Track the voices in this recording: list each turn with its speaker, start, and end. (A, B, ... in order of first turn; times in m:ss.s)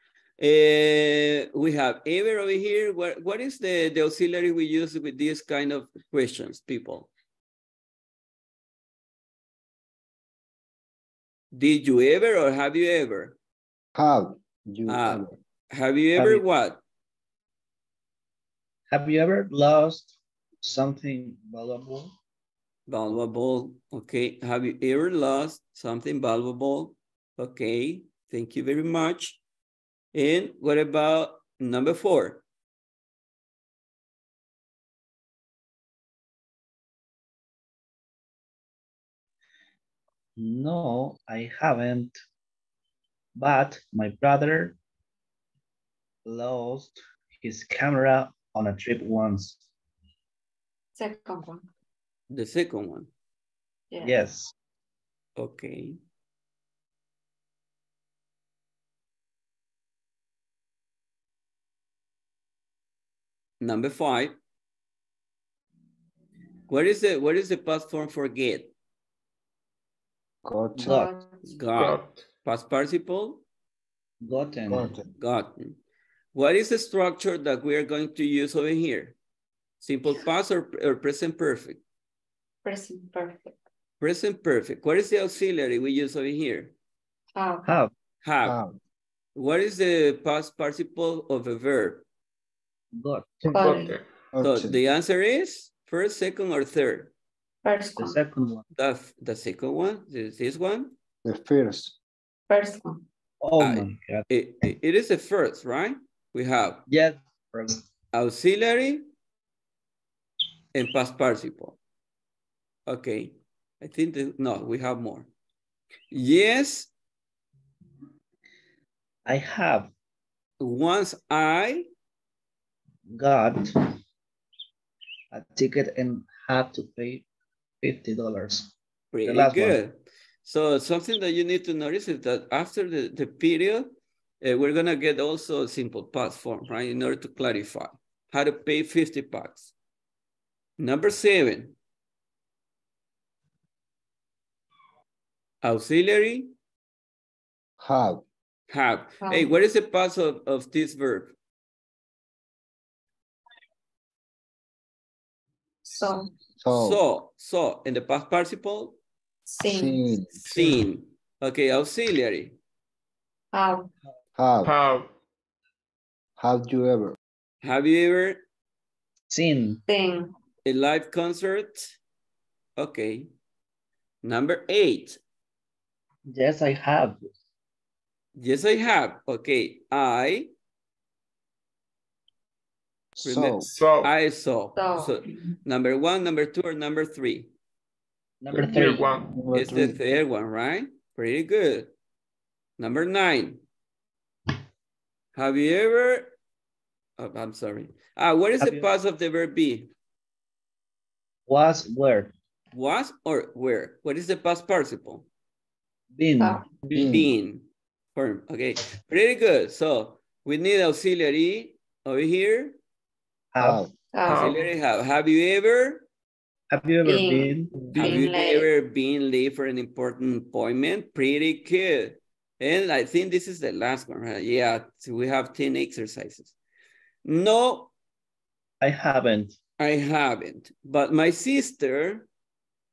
0:00.4-0:07.1 A
0:11.5-0:13.4 A
0:14.0-0:15.4 B
0:14.9-0:16.8 A
0:16.2-0:16.4 C
0:18.9-0:22.1 C
0:22.9-0:29.4 A
0:30.1-0:32.4 A
0:40.4-0:42.2 C
0:43.4-0:44.8 C
0:46.2-0:49.6 C
0:51.0-0:51.6 D
0:52.3-0:53.1 A
0:53.9-0:54.2 D
0:54.0-0:54.5 C
0:55.4-0:56.0 A
1:03.6-1:04.4 A
1:06.7-1:08.7 A
1:10.4-1:11.0 B
1:10.8-1:11.2 C
1:10.8-1:11.4 D
1:11.5-1:13.4 A
1:11.8-1:12.2 E
1:14.2-1:14.9 C
1:14.7-1:15.1 B
1:15.2-1:15.8 A
1:16.3-1:19.2 A
1:19.8-1:21.8 A
1:22.6-1:23.6 D
1:24.0-1:26.7 A
1:27.4-1:27.7 D
1:27.6-1:27.9 C
1:28.2-1:28.6 A
1:28.4-1:28.8 B
1:29.4-1:32.0 A
1:33.0-1:33.5 C
1:33.4-1:33.7 B
1:33.5-1:34.0 D
1:33.6-1:34.0 E
1:34.3-1:34.7 B
1:34.4-1:37.1 A
1:37.6-1:38.2 D
1:38.0-1:38.6 C
1:38.8-1:40.9 A
1:41.2-1:42.0 B
1:42.5-1:43.0 D
1:43.4-1:44.3 C
1:43.6-1:46.8 A
1:46.9-1:47.9 C
1:48.1-1:49.1 A
1:50.7-1:51.8 A
1:52.9-1:55.3 A
1:56.1-1:56.9 A
1:59.3-1:59.9 C
2:00.6-2:01.9 A
2:03.1-2:03.7 C
2:05.3-2:07.3 C
2:07.8-2:08.7 C
2:09.1-2:19.7 A
2:09.2-2:09.8 C
2:20.8-2:21.8 A
2:25.6-2:26.5 A
2:27.8-2:28.2 B
2:28.7-2:31.3 A
2:29.2-2:29.6 D
2:35.9-2:36.3 D
2:36.6-2:37.0 B
2:36.7-2:39.0 A
2:39.5-2:40.6 D
2:39.7-2:40.6 B
2:40.5-2:42.6 A
2:43.5-2:43.9 D
2:44.4-2:44.7 B
2:44.6-2:45.1 E
2:46.4-2:47.2 B
2:47.6-2:48.4 A
2:49.3-2:49.8 C
2:49.9-2:50.3 D
2:50.6-2:52.0 A
2:52.8-2:53.3 A
2:54.2-2:55.2 A
2:56.3-2:57.3 C
2:58.4-3:00.5 A
3:03.2-3:03.7 B
3:03.2-3:07.5 A
3:03.6-3:04.1 E
3:04.8-3:05.2 D
3:08.4-3:09.9 C
3:08.5-3:09.4 E
3:09.5-3:09.9 B
3:09.5-3:11.9 A
3:12.8-3:13.6 A
3:15.4-3:16.4 A
3:17.2-3:19.9 A
3:18.6-3:18.9 C
3:21.5-3:22.3 C
3:22.7-3:25.3 A
3:26.1-3:26.6 C
3:26.4-3:26.6 D
3:26.9-3:27.3 B
3:27.0-3:32.8 A
3:33.5-3:33.9 C
3:33.6-3:33.9 B
3:34.1-3:34.5 D
3:34.3-3:34.7 E
3:34.3-3:36.1 A
3:36.7-3:37.7 C
3:37.0-3:38.7 D
3:37.9-3:46.5 A
3:47.2-3:47.9 A
3:48.8-3:49.6 C
3:49.8-3:52.3 A